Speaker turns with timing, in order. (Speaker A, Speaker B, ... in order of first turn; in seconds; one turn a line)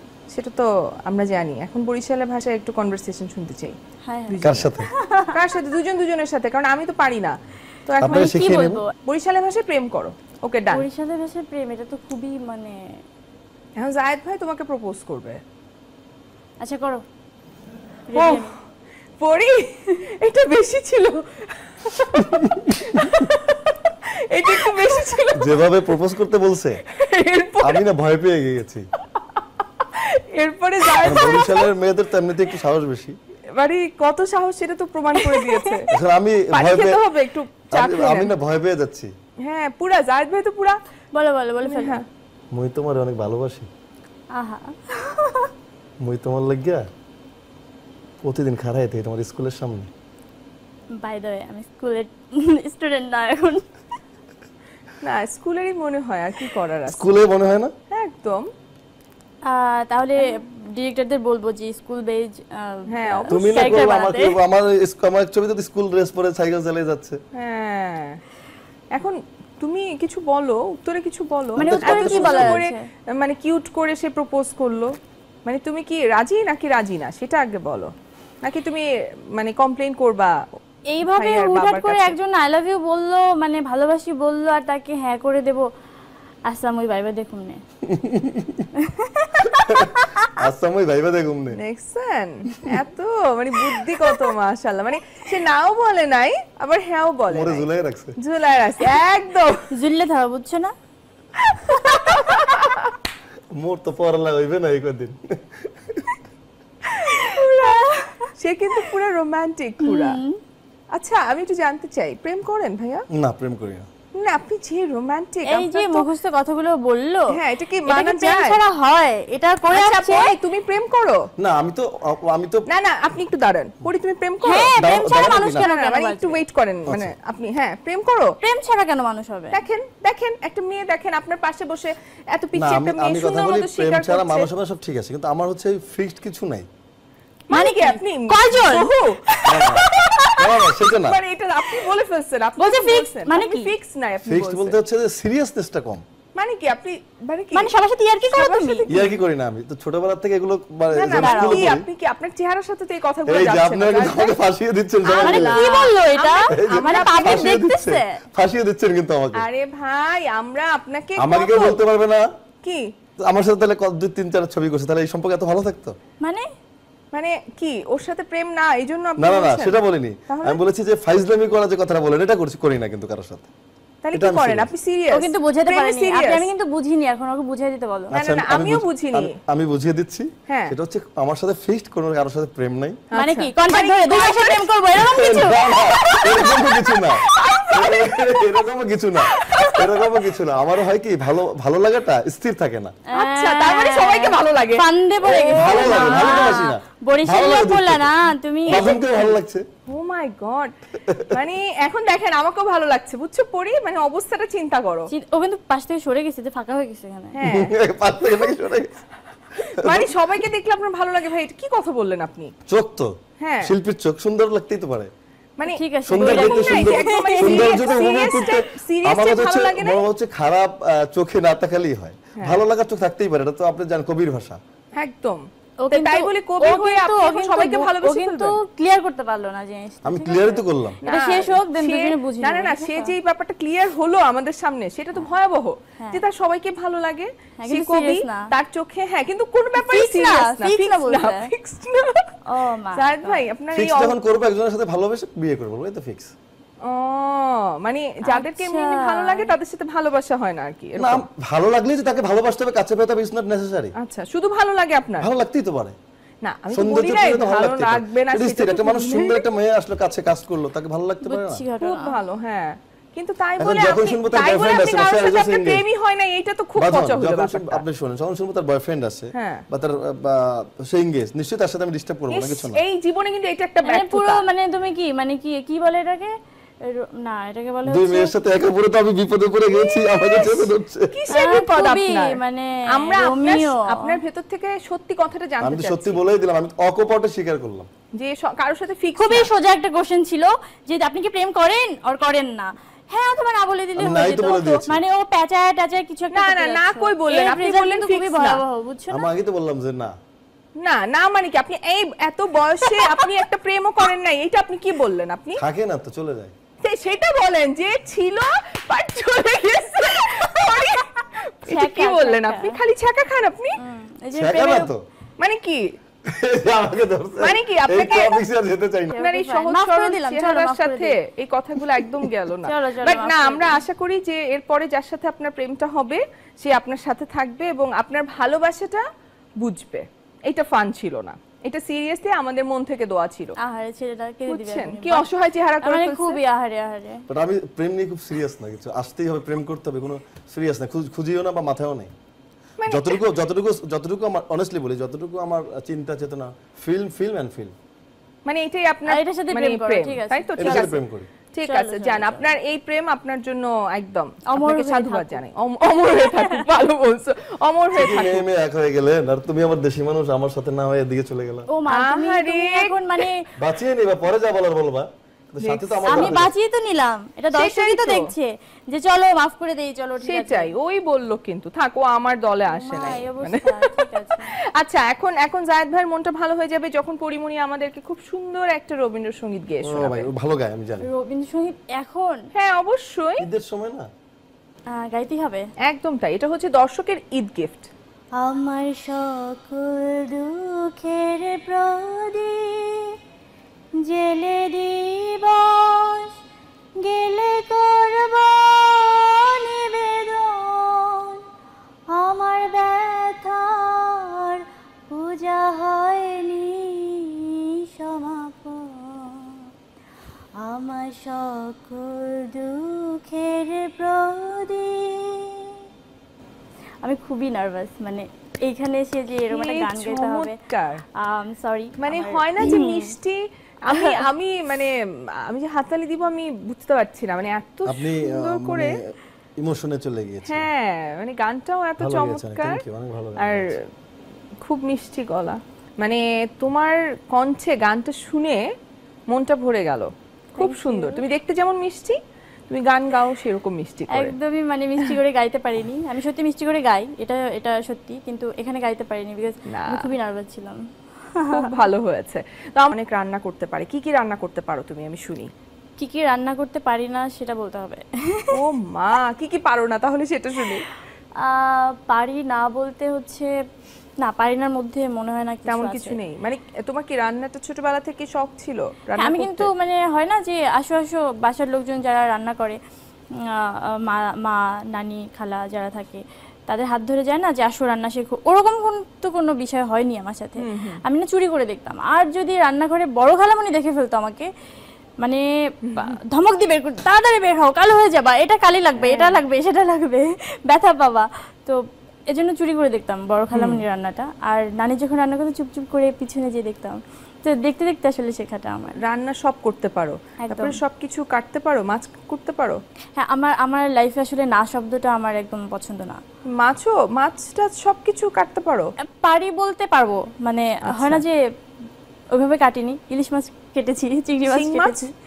Speaker A: 0.3-3.8
Speaker B: 4.0-5.3
Speaker A: 4.3-4.7
Speaker C: 4.4-4.9
Speaker A: 5.3-8.3
Speaker C: 8.0-8.8
Speaker B: 8.0-8.9
Speaker A: 9.0-10.8
Speaker B: 10.7-12.8
Speaker A: 13.8-15.4
Speaker B: 16.6-17.0
Speaker B: 18.1-18.5
Speaker A: 18.1-18.5
Speaker A: 19.2-22.2
Speaker C: 22.2-23.0
Speaker A: 22.8-25.6
Speaker C: 25.4-26.8
Speaker A: 26.9-27.8
Speaker C: 27.6-28.8
Speaker A: 29.8-31.7
Speaker C: 31.0-33.1
Speaker A: 33.5-35.9
Speaker B: 35.3-35.7
Speaker C: 35.9-37.0
Speaker A: 36.5-38.3
Speaker C: 37.7-39.1
Speaker A: 39.4-40.8
Speaker B: 41.1-42.0
Speaker A: 41.6-42.0
Speaker C: 42.5-43.7
Speaker B: 44.3-45.5
Speaker C: 46.0-46.8
Speaker C: 48.2-49.9
Speaker B: 51.0-53.6
Speaker A: 55.0-57.2
Speaker C: 56.9-57.7
Speaker A: 57.9-58.5
Speaker B: 59.5-64.4
Speaker A: 62.9-63.4
Speaker C: 63.3-67.2
Speaker A: 67.3-68.2
Speaker A: 68.9-74.9
Speaker B: 71.6-72.8
Speaker C: 71.6-72.6
Speaker A: 75.5-77.9
Speaker A: 78.4-80.4
Speaker B: 80.9-85.6
Speaker A: 81.0-82.1
Speaker B: 86.5-87.6
Speaker C: 87.9-88.6
Speaker B: 88.9-90.3
Speaker C: 89.6-91.6
Speaker A: 91.6-97.7
Speaker C: 97.3-98.1
Speaker A: 98.2-99.7
Speaker B: 99.7-100.7
Speaker A: 101.5-102.9
Speaker C: 103.6-106.1
Speaker B: 107.0-108.3
Speaker A: 107.1-107.8
Speaker A: 108.4-110.2
Speaker B: 109.8-110.4
Speaker A: 110.9-113.0
Speaker C: 113.1-113.9
Speaker A: 114.2-116.1
Speaker B: 115.5-117.2
Speaker A: 117.3-118.6
Speaker B: 117.9-120.3
Speaker A: 119.7-121.2
Speaker C: 121.4-122.7
Speaker A: 122.7-124.7
Speaker B: 124.4-126.4
Speaker C: 124.8-125.7
Speaker A: 125.6-128.3
Speaker C: 126.9-127.1
Speaker B: 128.4-129.6
Speaker A: 129.5-134.5
Speaker C: 132.6-136.7
Speaker A: 137.5-144.8
Speaker B: 137.5-140.0
Speaker C: 139.4-141.2
Speaker B: 142.6-143.7
Speaker C: 144.3-146.0
Speaker A: 146.4-149.2
Speaker B: 147.6-148.8
Speaker C: 148.9-151.9
Speaker A: 150.9-154.4
Speaker B: 151.2-151.7
Speaker C: 153.3-155.7
Speaker A: 155.0-157.5
Speaker B: 155.2-158.2
Speaker C: 156.5-159.5
Speaker A: 159.3-161.8
Speaker C: 161.2-162.3
Speaker A: 162.6-162.9
Speaker C: 163.2-166.0
Speaker B: 166.2-166.5
Speaker A: 167.1-169.8
Speaker C: 169.2-173.5
Speaker A: 170.3-170.6
Speaker A: 174.0-176.5
Speaker C: 174.1-174.7
Speaker B: 175.1-178.1
Speaker C: 178.1-183.0
Speaker A: 178.1-179.3
Speaker A: 180.5-180.8
Speaker A: 183.1-184.7
Speaker B: 183.2-187.6
Speaker C: 185.0-193.0
Speaker A: 187.0-187.8
Speaker A: 189.3-189.8
Speaker B: 189.4-190.3
Speaker A: 193.1-196.6
Speaker B: 193.1-199.0
Speaker C: 195.4-198.1
Speaker C: 198.7-199.6
Speaker A: 198.7-199.3
Speaker A: 199.9-200.8
Speaker C: 201.0-201.3
Speaker A: 201.3-205.1
Speaker B: 205.1-207.4
Speaker A: 207.3-207.7
Speaker C: 207.4-208.9
Speaker A: 209.6-212.5
Speaker C: 209.7-210.1
Speaker C: 212.7-213.1
Speaker A: 213.4-213.8
Speaker C: 213.6-215.1
Speaker A: 215.6-220.0
Speaker B: 215.7-218.0
Speaker C: 216.1-224.6
Speaker A: 222.4-222.6
Speaker A: 224.9-228.6
Speaker B: 225.8-233.2
Speaker C: 230.0-231.0
Speaker A: 231.0-242.3
Speaker B: 237.6-238.5
Speaker B: 239.8-241.5
Speaker B: 242.5-243.4
Speaker A: 242.9-244.2
Speaker C: 243.7-246.3
Speaker A: 246.8-251.3
Speaker B: 248.3-249.5
Speaker C: 251.0-253.9
Speaker A: 254.0-255.3
Speaker C: 255.2-256.0
Speaker A: 256.4-259.4
Speaker C: 256.7-261.6
Speaker B: 261.2-262.1
Speaker A: 261.8-267.8
Speaker C: 263.6-265.9
Speaker C: 266.8-272.8
Speaker A: 269.3-269.6
Speaker A: 272.3-274.4
Speaker B: 273.9-276.3
Speaker B: 276.9-278.3
Speaker C: 277.9-281.1
Speaker A: 280.1-282.4
Speaker B: 281.3-284.2
Speaker A: 282.9-286.2
Speaker C: 285.6-287.9
Speaker A: 288.1-289.5
Speaker B: 289.2-299.2
Speaker C: 294.0-295.0
Speaker A: 296.3-298.6
Speaker C: 299.1-300.1
Speaker A: 300.8-305.6
Speaker C: 305.6-306.5
Speaker A: 306.8-313.8
Speaker B: 311.7-312.8
Speaker B: 313.8-314.9
Speaker C: 314.3-315.0
Speaker A: 315.4-315.9
Speaker C: 316.3-319.2
Speaker A: 317.4-318.4
Speaker B: 319.1-321.2
Speaker A: 319.2-329.0
Speaker B: 322.6-323.8
Speaker A: 329.6-333.6
Speaker B: 333.6-335.3
Speaker A: 334.5-336.4
Speaker B: 335.8-337.2
Speaker C: 337.3-342.1
Speaker A: 342.8-343.2
Speaker C: 342.9-347.7
Speaker A: 348.5-350.9
Speaker B: 349.1-351.0
Speaker C: 350.6-351.3
Speaker A: 351.5-358.4
Speaker B: 351.6-352.5
Speaker B: 354.5-355.4
Speaker B: 356.2-356.6
Speaker C: 357.9-361.7
Speaker B: 361.7-363.4
Speaker A: 361.9-363.2
Speaker C: 363.6-366.5
Speaker A: 365.6-366.4
Speaker B: 366.1-370.7
Speaker A: 367.5-368.3
Speaker A: 370.2-374.1
Speaker B: 372.7-374.5
Speaker A: 374.8-380.3
Speaker C: 379.9-381.1
Speaker B: 381.0-382.4
Speaker A: 382.6-383.5
Speaker C: 383.4-384.1
Speaker B: 384.9-385.7
Speaker A: 385.9-387.9
Speaker B: 388.4-393.2
Speaker B: 394.0-396.3
Speaker B: 397.0-401.4
Speaker B: 402.1-409.7
Speaker B: 410.6-415.8
Speaker B: 417.0-420.6
Speaker A: 419.5-421.0
Speaker B: 421.2-423.1
Speaker A: 422.0-429.0
Speaker C: 427.9-429.0
Speaker C: 429.6-430.7
Speaker A: 430.5-432.8
Speaker C: 432.0-433.8
Speaker A: 433.4-433.9
Speaker A: 434.6-438.6
Speaker A: 439.3-442.2
Speaker B: 440.6-441.2
Speaker A: 442.7-444.4
Speaker B: 444.1-450.8
Speaker A: 449.7-450.1
Speaker B: 451.4-451.7
Speaker A: 451.5-455.5
Speaker B: 456.0-458.5
Speaker A: 458.5-460.9
Speaker B: 461.4-463.5
Speaker B: 464.2-466.2
Speaker A: 465.7-469.7
Speaker B: 469.2-472.8
Speaker B: 473.5-484.5
Speaker A: 480.6-481.0
Speaker A: 485.9-486.2
Speaker B: 486.0-491.8
Speaker A: 489.0-489.4
Speaker B: 492.3-499.0
Speaker A: 493.5-493.8
Speaker A: 499.0-502.8
Speaker B: 500.4-500.8
Speaker B: 503.2-506.2
Speaker A: 506.6-508.9
Speaker B: 509.1-511.4
Speaker A: 510.8-511.2
Speaker B: 512.4-515.1
Speaker A: 514.5-515.1